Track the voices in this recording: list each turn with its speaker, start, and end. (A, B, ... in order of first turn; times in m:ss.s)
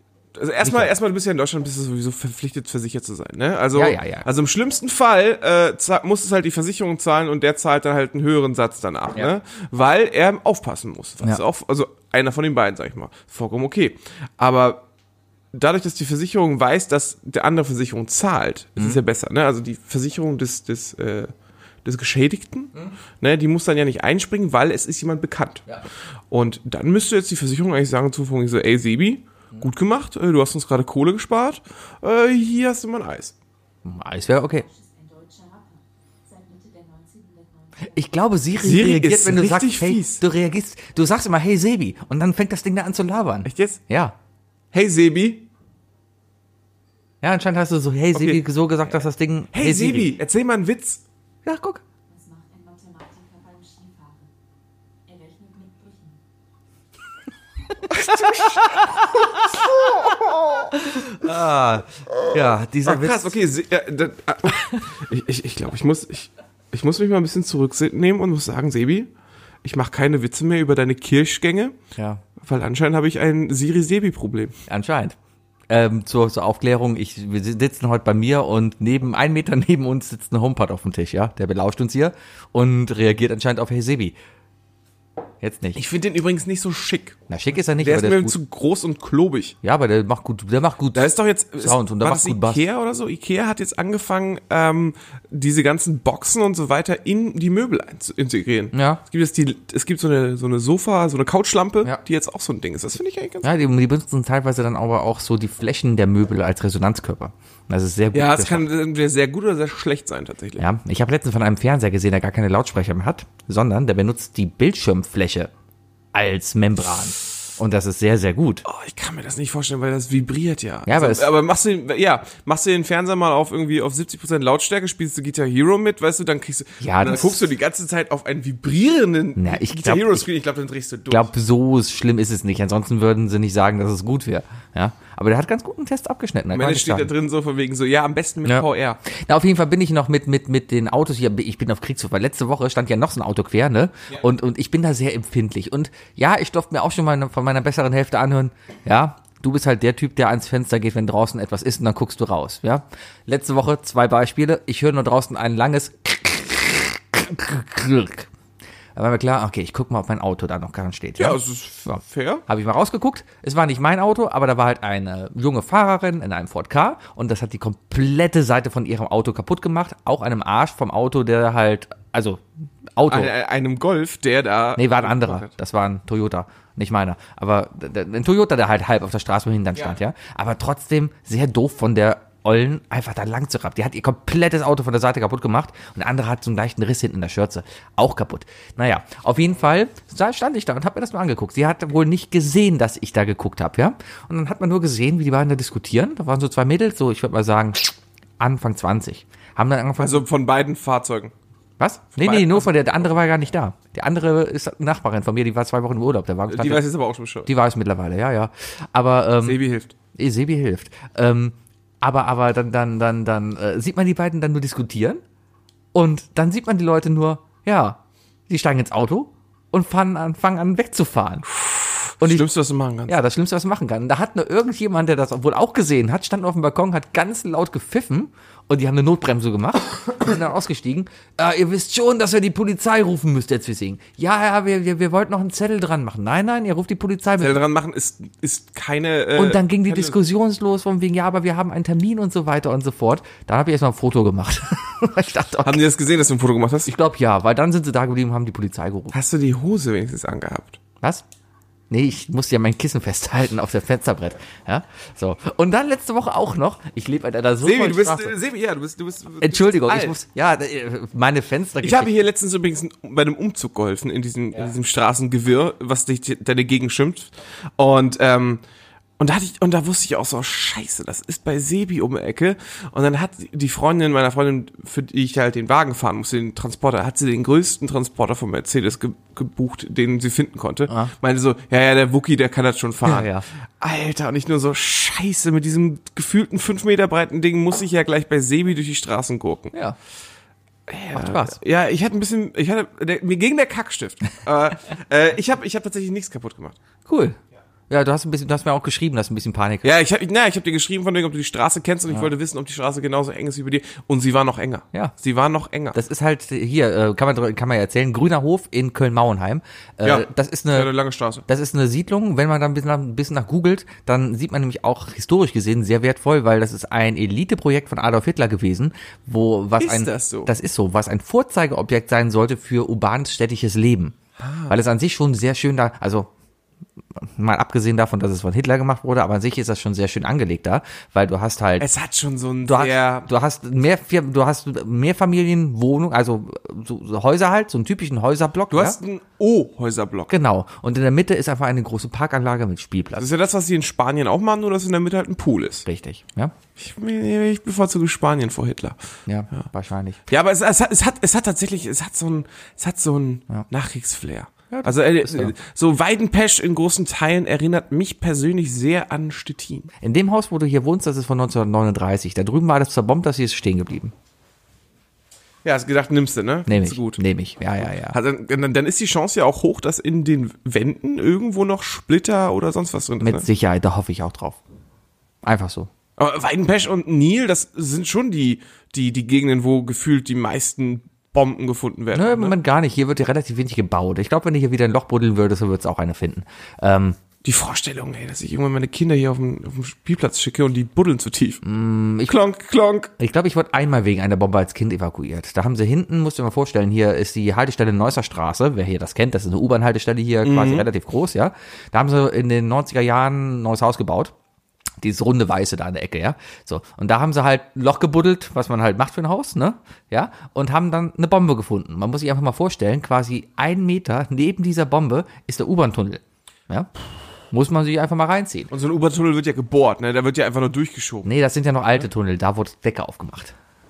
0:00.3-0:14.8 A
0:00.6-0:00.9 B
0:03.7-0:04.2 B
0:15.5-0:21.3 A
0:21.8-0:25.7 A
0:26.3-0:33.3 A
0:33.8-0:34.6 B
0:34.5-0:38.1 C
0:37.9-0:44.1 B
0:38.6-0:40.2 A
0:43.4-0:43.8 A
0:44.7-0:45.5 A
0:47.2-0:50.1 B
0:48.1-0:48.4 A
0:49.5-0:51.0 A
0:51.4-0:51.8 B
0:52.1-0:54.3 C
0:55.0-0:56.2 C
0:57.9-0:59.4 B
0:58.0-0:58.6 A
1:00.7-1:03.3 B
1:02.8-1:09.1 A
1:09.6-1:11.8 A
1:12.0-1:12.2 B
1:12.4-1:14.6 A
1:14.7-1:15.2 B
1:15.7-1:24.1 B
1:25.4-1:25.8 B
1:25.8-1:27.2 A
1:27.3-1:28.4 B
1:27.8-1:29.6 A
1:29.6-1:32.6 B
1:30.9-1:43.5 A
1:38.7-1:39.0 B
1:43.4-1:48.6 B
1:48.1-1:50.6 A
1:50.6-1:55.5 B
1:56.1-1:58.6 B
1:58.6-2:11.3 A
2:00.9-2:01.3 B
2:06.8-2:07.4 B
2:09.4-2:10.2 B
2:11.1-2:17.1 B
2:16.5-2:19.0 A
2:18.4-2:38.3 B
2:38.9-2:52.4 B
2:41.2-2:42.4 A
2:53.0-2:53.3 B
2:53.0-2:55.5 A
2:54.8-3:20.2 B
3:20.0-3:21.3 A
3:21.8-3:26.8 B
3:22.2-3:22.7 A
3:26.5-3:27.5 A
3:27.4-3:29.6 B
3:29.4-3:29.9 A
3:30.1-3:35.2 B
3:35.9-3:41.5 B
3:41.6-3:43.1 A
3:42.2-3:42.5 B
3:43.1-3:57.6 B
3:57.4-4:00.2 A
3:59.4-4:05.8 B
4:05.6-4:06.9 A
4:06.9-4:09.1 B
4:09.1-4:10.8 A
4:11.9-4:18.4 B
4:17.6-4:20.2 A
4:19.4-4:22.1 B
4:21.8-4:28.6 A
4:29.2-4:49.7 A
4:43.0-4:43.4 B
4:50.9-4:56.8 A
4:51.1-4:51.6 B
4:57.1-4:57.4 B
4:57.9-4:59.9 B
4:59.8-5:06.0 A
5:05.9-5:10.9 B
5:10.0-5:11.4 A
5:11.5-5:24.2 B
5:19.8-5:20.5 A
5:24.4-5:24.8 A
5:24.7-5:26.3 B
5:27.2-5:31.9 B
5:31.8-5:33.3 A
5:32.6-5:39.0 B
5:38.7-5:40.3 A
5:40.3-5:43.3 B
5:43.2-5:45.8 A
5:45.8-5:46.5 B
5:46.8-5:49.0 A
5:49.3-5:50.2 B
5:50.3-5:59.9 A
5:54.7-5:55.5 B
6:00.0-6:04.1 B
6:05.6-6:07.2 A
6:06.7-6:08.2 B
6:07.8-6:13.4 A
6:13.2-6:14.6 B
6:15.4-6:15.9 B
6:16.2-6:22.5 A
6:22.1-6:27.2 B
6:27.4-6:31.6 A
6:31.6-6:32.4 B
6:32.2-6:33.1 A
6:33.2-6:44.3 B
6:40.4-6:40.9 A
6:45.0-6:56.9 B
6:57.5-6:58.7 B
6:58.7-7:01.3 A
7:01.2-7:03.5 B